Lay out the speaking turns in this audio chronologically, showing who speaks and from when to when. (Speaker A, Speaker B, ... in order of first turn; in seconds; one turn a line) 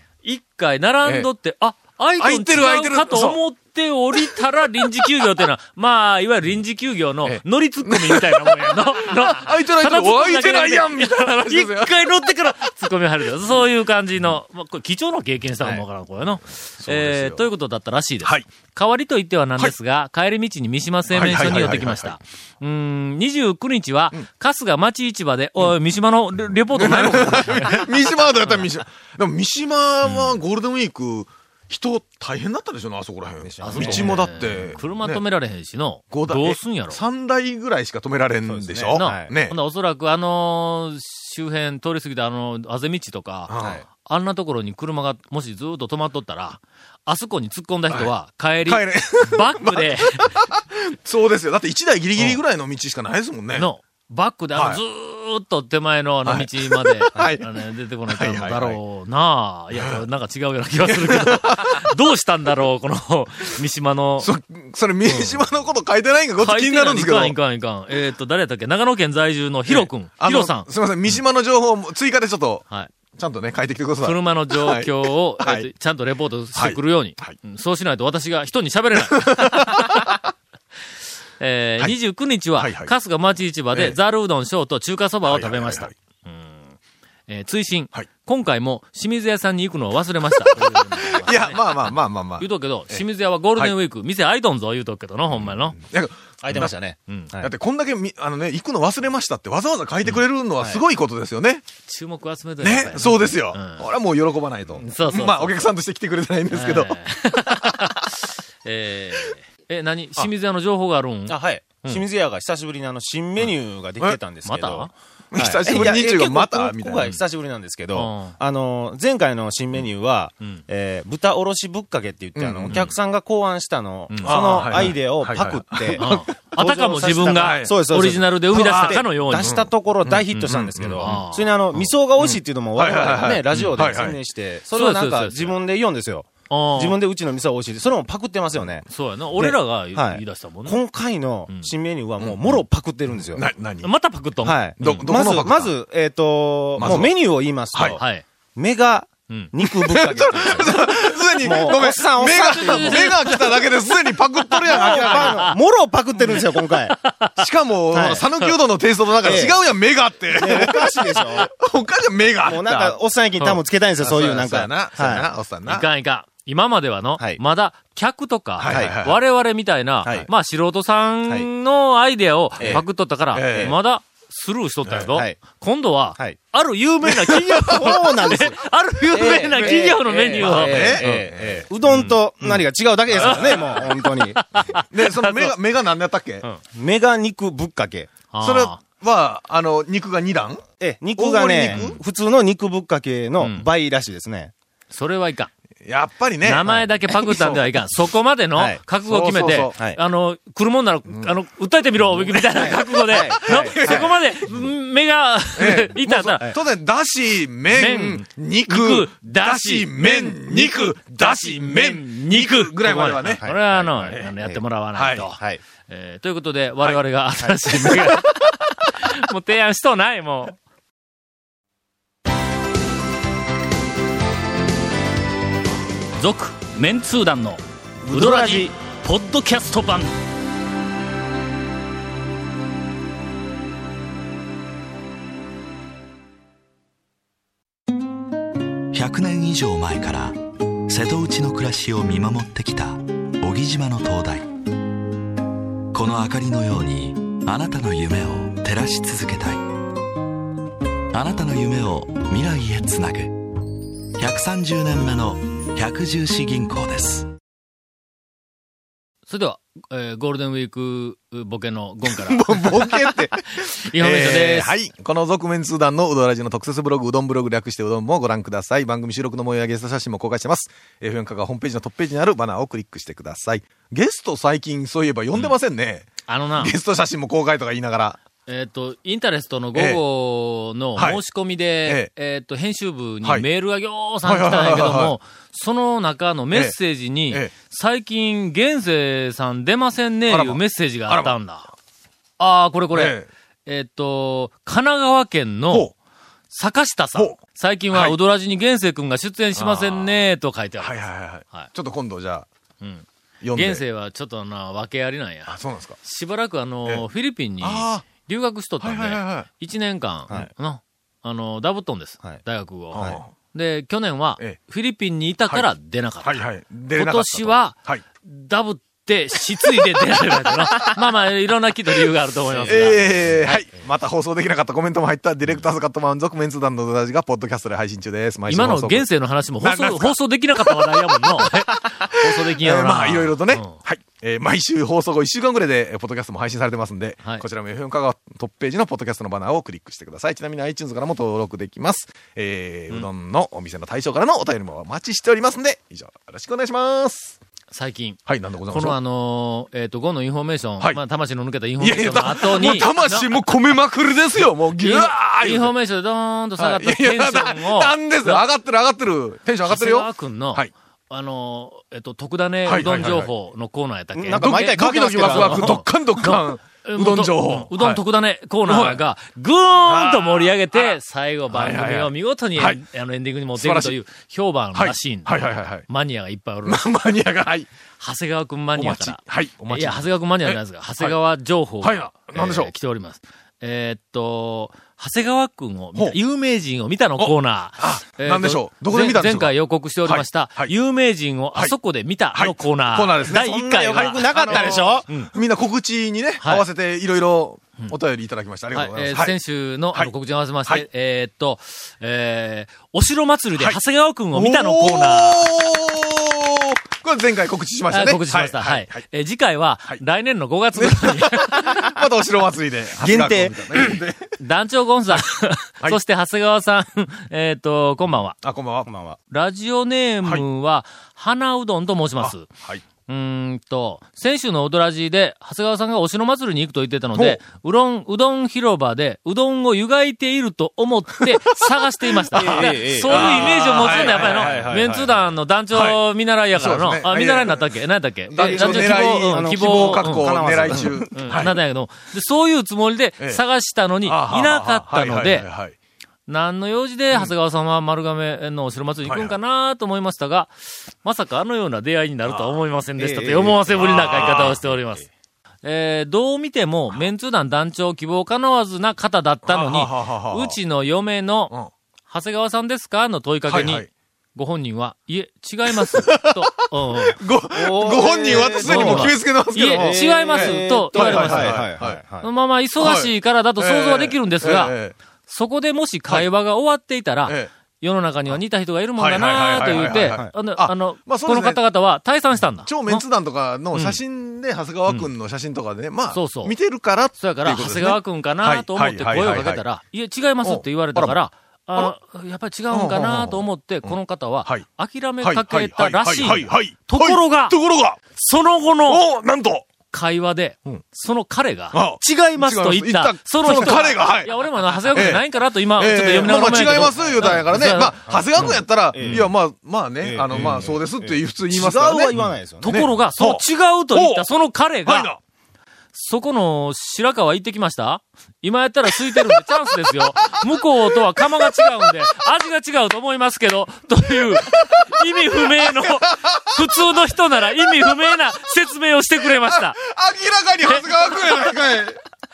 Speaker A: 0.2-28.6
Speaker B: 2.2-3.4
Speaker B: 7.2-12.7
Speaker B: 16.8-17.5
Speaker B: 21.1-22.2
Speaker B: 26.8-35.2
Speaker A: 30.1-30.4
Speaker C: 33.5-34.3
Speaker A: 33.6-37.0
Speaker B: 36.1-39.6
Speaker C: 38.5-39.3
Speaker A: 39.0-43.5
Speaker B: 43.5-43.8
Speaker C: 43.6-43.8
Speaker A: 44.0-50.4
Speaker B: 48.7-53.7
Speaker A: 53.5-64.3
Speaker B: 54.5-54.8
Speaker B: 56.2-57.5
Speaker B: 58.1-58.8
Speaker B: 59.8-60.0
Speaker B: 60.9-61.9
Speaker B: 64.2-67.3
Speaker A: 65.0-65.4
Speaker A: 66.4-70.7
Speaker B: 69.7-75.7
Speaker A: 74.0-80.1
Speaker B: 76.5-77.4
Speaker B: 79.1-80.2
Speaker A: 81.4-86.8
Speaker B: 82.6-82.9
Speaker B: 85.2-85.9
Speaker A: 87.3-95.8
Speaker B: 90.5-93.0
Speaker B: 95.3-96.8
Speaker C: 96.4-97.5
Speaker B: 97.4-101.7
Speaker A: 101.9-103.9
Speaker B: 102.6-107.0
Speaker A: 104.8-105.7
Speaker A: 106.5-112.0
Speaker B: 107.5-108.0
Speaker C: 111.3-138.8
Speaker A: 114.5-114.9
Speaker B: 115.3-117.1
Speaker A: 117.9-118.4
Speaker B: 122.4-122.9
Speaker A: 124.1-125.0
Speaker B: 124.2-126.3
Speaker A: 126.0-129.6
Speaker B: 127.3-127.8
Speaker B: 128.5-131.2
Speaker A: 130.3-131.9
Speaker B: 132.2-134.2
Speaker A: 133.5-134.1
Speaker A: 134.7-135.6
Speaker A: 136.5-137.0
Speaker A: 138.9-140.8
Speaker C: 139.4-143.5
Speaker B: 142.2-142.6
Speaker B: 143.3-143.9
Speaker A: 143.8-145.0
Speaker C: 144.4-148.0
Speaker B: 144.8-145.7
Speaker B: 146.8-147.1
Speaker B: 147.7-148.0
Speaker A: 148.0-148.2
Speaker C: 148.6-153.4
Speaker B: 149.7-155.5
Speaker A: 152.5-153.5
Speaker C: 154.6-157.0
Speaker A: 154.7-155.6
Speaker A: 156.2-157.4
Speaker B: 157.4-163.0
Speaker C: 157.9-158.3
Speaker C: 159.2-159.6
Speaker C: 160.3-161.5
Speaker C: 162.4-165.3
Speaker B: 164.0-165.9
Speaker A: 165.7-181.3
Speaker B: 168.6-169.2
Speaker C: 168.7-168.9
Speaker C: 170.0-170.3
Speaker C: 172.6-172.8
Speaker B: 172.6-173.8
Speaker C: 173.5-173.8
Speaker C: 175.1-175.4
Speaker C: 177.6-178.6
Speaker C: 179.1-184.4
Speaker B: 180.3-181.7
Speaker A: 181.9-182.2
Speaker B: 183.1-183.8
Speaker A: 183.2-185.5
Speaker B: 184.9-186.4
Speaker C: 186.7-188.1
Speaker A: 188.3-188.8
Speaker B: 188.4-190.6
Speaker C: 190.8-194.5
Speaker B: 191.2-192.0
Speaker A: 191.7-192.0
Speaker A: 193.4-193.7
Speaker A: 194.9-195.5
Speaker B: 195.8-197.7
Speaker A: 196.4-206.5
Speaker C: 198.6-198.8
Speaker B: 199.1-199.8
Speaker B: 202.1-204.6
Speaker C: 202.6-204.1
Speaker B: 205.6-213.4
Speaker A: 207.7-220.6
Speaker C: 213.2-214.6
Speaker B: 214.9-215.3
Speaker C: 215.3-215.6
Speaker B: 217.7-218.1
Speaker D: 226.2-230.1
Speaker C: 228.1-228.7
Speaker E: 238.9-244.5
Speaker E: 245.9-249.7
Speaker E: 251.1-253.5
Speaker E: 254.2-257.3
Speaker A: 259.3-263.1
Speaker B: 262.1-276.1
Speaker A: 263.7-264.7
Speaker A: 276.3-276.7
Speaker B: 276.6-278.2
Speaker A: 278.5-291.7
Speaker B: 279.7-280.0
Speaker B: 281.0-281.2
Speaker B: 281.9-282.1
Speaker B: 284.2-285.2
Speaker B: 290.3-291.4
Speaker A: 292.4-295.9
Speaker B: 292.9-293.3
Speaker A: 296.5-300.9
Speaker B: 297.9-298.2
Speaker B: 299.6-300.2
Speaker B: 300.8-302.5
Speaker A: 302.8-323.7
Speaker B: 303.4-303.8
Speaker B: 305.5-306.0
Speaker B: 307.6-308.1
Speaker B: 308.8-309.5
Speaker C: 312.9-313.2
Speaker B: 312.9-313.3
Speaker B: 316.2-318.0
Speaker B: 319.8-321.0
Speaker C: 322.5-323.5
Speaker B: 322.6-329.1
Speaker A: 328.5-333.8
Speaker B: 329.6-347.4
Speaker A: 347.7-348.2
Speaker B: 348.3-349.0
Speaker A: 348.7-353.4
Speaker B: 351.8-355.7
Speaker A: 354.8-358.4
Speaker B: 356.6-360.7
Speaker A: 359.7-376.9
Speaker B: 362.7-363.3
Speaker C: 364.1-365.8
Speaker B: 364.4-368.0
Speaker B: 368.7-369.0
Speaker B: 369.8-371.0
Speaker B: 371.5-372.8
Speaker B: 373.6-374.0
Speaker B: 374.8-375.9
Speaker B: 376.6-377.7
Speaker A: 378.0-395.3
Speaker B: 378.8-381.2
Speaker B: 381.8-382.7
Speaker B: 387.2-389.5
Speaker B: 390.1-390.7
Speaker B: 392.3-399.4
Speaker C: 393.3-395.1
Speaker A: 396.4-396.7
Speaker A: 398.7-405.5
Speaker B: 404.3-409.0
Speaker A: 407.9-411.9
Speaker B: 410.8-414.4
Speaker C: 413.0-413.6
Speaker A: 414.4-418.4
Speaker B: 418.4-418.9
Speaker C: 418.9-419.2
Speaker A: 419.3-422.5
Speaker B: 422.2-422.8
Speaker A: 423.1-445.5
Speaker B: 431.2-431.7
Speaker C: 432.3-435.1
Speaker B: 432.3-435.1
Speaker B: 435.7-437.7
Speaker B: 438.3-441.6
Speaker C: 438.3-441.1
Speaker B: 444.0-445.8
Speaker A: 446.3-455.1
Speaker B: 449.1-449.4
Speaker B: 452.3-452.6
Speaker C: 453.0-455.0
Speaker B: 453.8-454.6
Speaker A: 455.6-461.5
Speaker B: 459.4-460.6
Speaker A: 462.1-467.2
Speaker B: 463.5-463.9
Speaker B: 465.7-472.0
Speaker C: 467.5-472.3
Speaker A: 468.5-471.7
Speaker A: 472.2-474.8
Speaker B: 472.8-474.9
Speaker A: 475.3-483.0
Speaker B: 479.0-481.6
Speaker C: 479.9-480.3
Speaker B: 482.6-489.6
Speaker A: 483.7-484.0
Speaker A: 486.1-486.6
Speaker A: 487.2-497.6
Speaker B: 490.4-491.2
Speaker B: 492.7-494.7
Speaker B: 495.2-498.0
Speaker A: 498.1-499.0
Speaker B: 498.9-499.7
Speaker A: 499.9-509.3
Speaker B: 501.7-505.2
Speaker C: 503.5-503.8
Speaker B: 505.8-512.1
Speaker C: 506.3-509.3
Speaker C: 510.0-512.9
Speaker A: 510.3-510.7
Speaker A: 512.1-515.1
Speaker B: 512.6-514.3
Speaker B: 514.9-515.2
Speaker A: 515.9-529.8
Speaker B: 519.1-519.4
Speaker B: 520.2-521.9
Speaker B: 524.3-527.0
Speaker B: 527.6-528.1
Speaker B: 529.3-532.0
Speaker A: 530.6-531.4